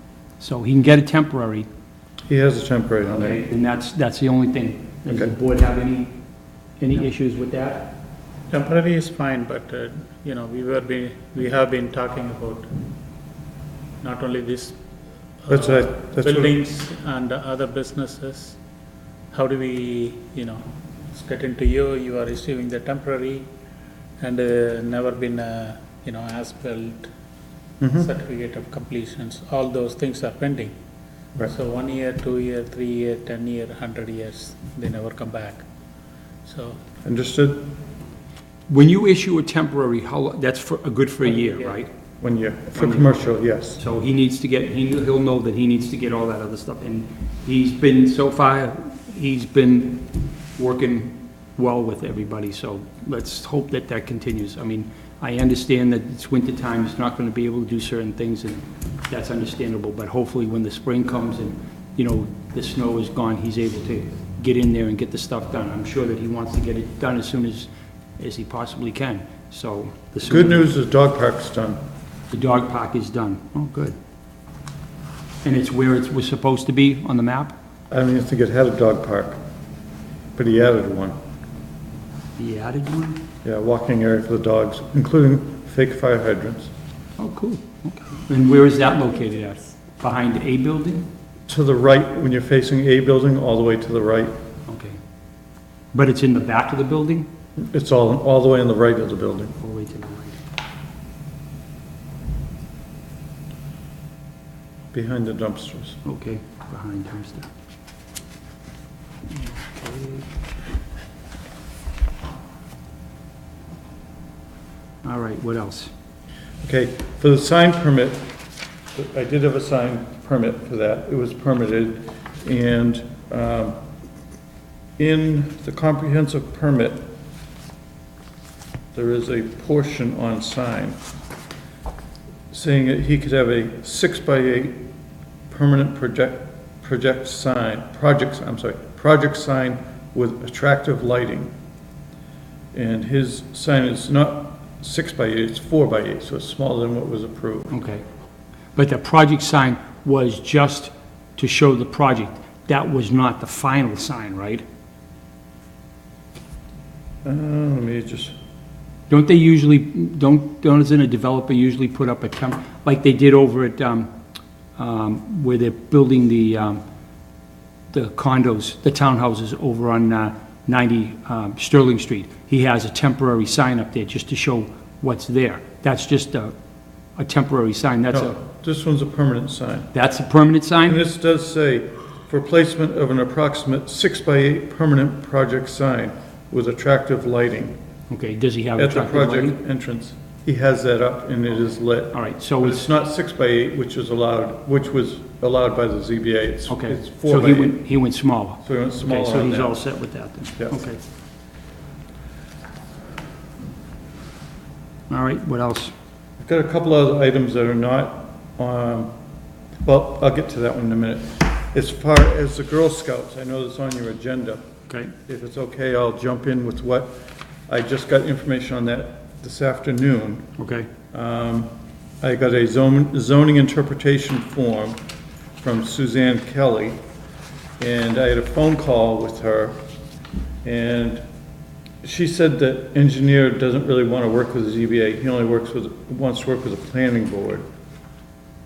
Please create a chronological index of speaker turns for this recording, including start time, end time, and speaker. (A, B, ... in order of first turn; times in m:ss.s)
0:00.4-0:01.7 A
0:02.3-0:03.4 B
0:03.2-0:06.2 A
0:06.8-0:08.0 A
0:08.5-0:12.7 C
0:14.0-0:14.8 C
0:15.4-0:18.6 C
0:15.5-0:16.5 B
0:19.3-0:23.5 C
0:24.2-0:27.1 C
0:27.8-0:28.1 B
0:28.0-0:30.7 C
0:31.5-0:35.6 C
0:36.4-0:36.8 C
0:37.0-0:37.7 B
0:38.7-0:41.9 A
0:41.3-0:41.8 C
0:42.2-0:43.8 B
0:42.8-1:10.7 A
1:10.3-1:11.8 B
1:12.3-1:14.0 A
1:15.4-1:17.6 A
1:17.9-1:19.4 B
1:20.4-1:21.2 B
1:22.4-1:23.2 A
1:23.4-1:26.7 B
1:27.2-1:31.1 A
1:31.5-1:34.4 B
1:34.7-1:35.0 A
1:35.9-1:37.3 A
1:37.6-1:39.5 B
1:39.6-1:40.4 A
1:44.9-1:46.0 B
1:46.0-1:47.5 A
1:49.3-1:50.3 A
1:55.0-1:55.9 A
1:56.6-1:58.3 B
1:58.9-2:03.8 B
2:05.0-2:07.1 B
2:08.9-2:11.0 B
2:12.5-2:14.8 B
2:15.5-2:21.5 B
2:22.7-2:27.7 B
2:27.7-2:28.0 A
2:28.8-2:34.6 A
2:37.2-2:38.3 B
2:39.1-2:44.1 A
2:44.8-2:46.8 A
2:47.9-2:56.6 A
2:57.2-2:58.3 A
2:58.1-2:59.9 B
2:59.9-3:01.0 A
3:00.8-3:07.8 B
3:08.1-3:09.6 A
3:08.8-3:17.8 B
3:12.1-3:12.9 A
3:16.7-3:21.0 A
3:18.6-3:19.8 B
3:20.6-3:20.8 B
3:25.1-3:25.9 A
3:26.4-3:29.1 B
3:29.8-3:34.6 B
3:34.9-3:35.1 A
3:35.3-3:37.1 B
3:37.7-3:40.5 B
3:40.6-3:40.9 A
3:41.1-3:45.0 B
3:45.6-3:47.0 B
3:47.8-3:49.8 B
3:50.6-3:51.2 B
3:52.0-3:57.6 B